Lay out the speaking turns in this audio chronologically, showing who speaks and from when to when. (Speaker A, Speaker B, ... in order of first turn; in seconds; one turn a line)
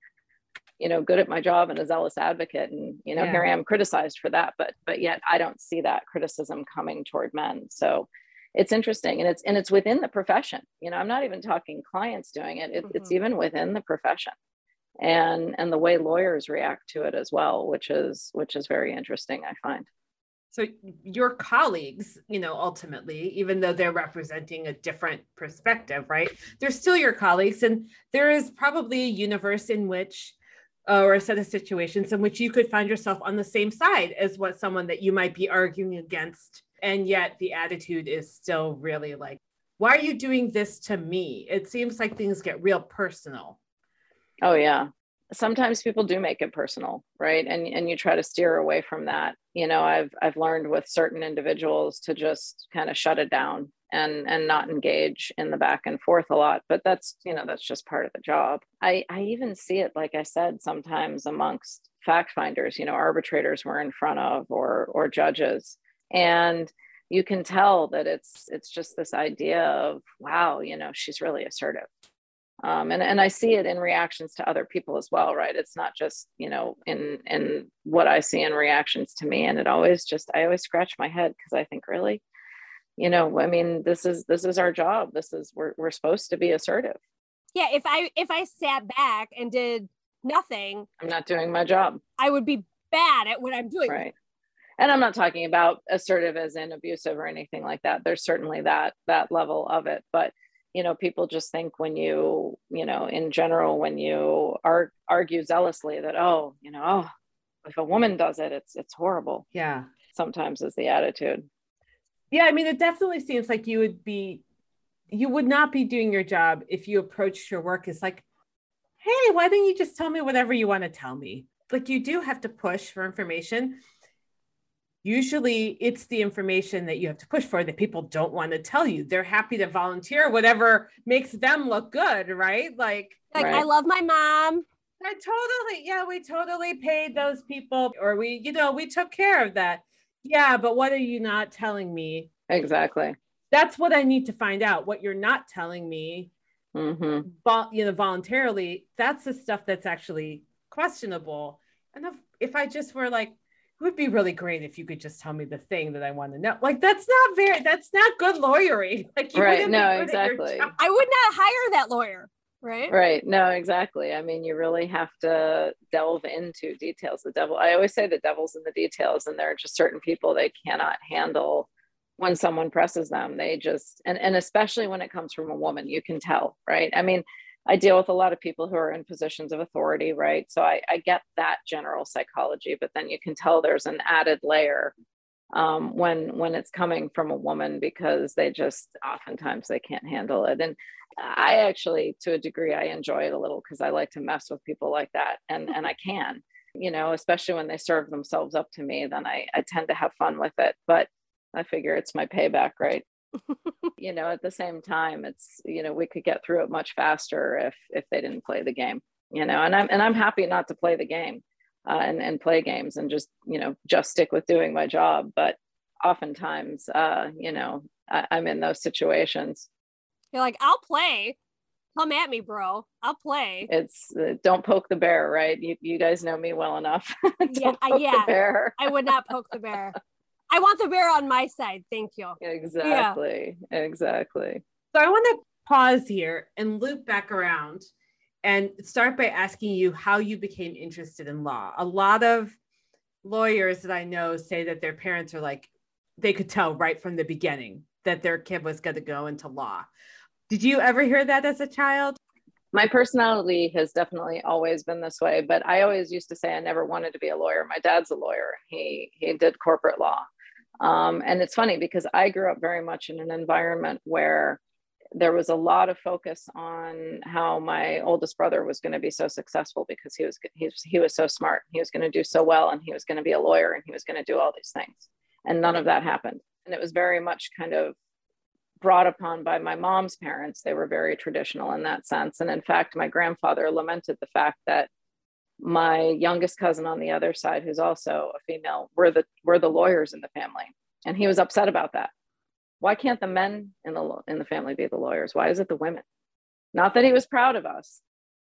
Speaker A: 0.8-14.3
Speaker B: 3.2-3.4
Speaker C: 12.8-13.1
Speaker A: 15.0-19.9
Speaker B: 20.5-30.4
Speaker B: 30.9-43.6
Speaker A: 44.4-71.9
Speaker A: 72.6-82.2
Speaker A: 83.0-87.0
Speaker C: 87.5-90.9
Speaker A: 91.0-92.0
Speaker C: 92.2-94.0
Speaker A: 93.8-94.1
Speaker A: 94.8-107.1
Speaker A: 107.6-109.5
Speaker B: 109.5-109.9
Speaker A: 110.1-111.5
Speaker B: 112.3-114.4
Speaker B: 115.1-118.2
Speaker B: 119.0-123.8
Speaker B: 125.0-133.2
Speaker C: 133.3-134.7
Speaker A: 133.4-133.7
Speaker B: 135.0-142.3
Speaker A: 142.5-143.2
Speaker B: 143.5-146.3
Speaker A: 146.7-147.3
Speaker B: 147.2-160.8
Speaker A: 159.3-160.7
Speaker C: 160.8-162.9
Speaker A: 162.9-171.7
Speaker A: 172.2-184.9
Speaker A: 185.5-203.0
Speaker A: 204.0-219.7
Speaker C: 220.3-221.4
Speaker C: 221.9-223.7
Speaker A: 223.7-229.0
Speaker C: 227.5-230.0
Speaker C: 230.5-233.2
Speaker A: 232.4-234.6
Speaker B: 234.9-237.9
Speaker B: 238.4-242.6
Speaker B: 243.2-249.9
Speaker B: 250.5-252.2
Speaker A: 252.7-260.2
Speaker A: 260.8-264.6
Speaker A: 265.1-277.9
Speaker A: 278.8-284.9
Speaker A: 285.6-292.1
Speaker A: 292.8-296.0
Speaker A: 296.7-298.0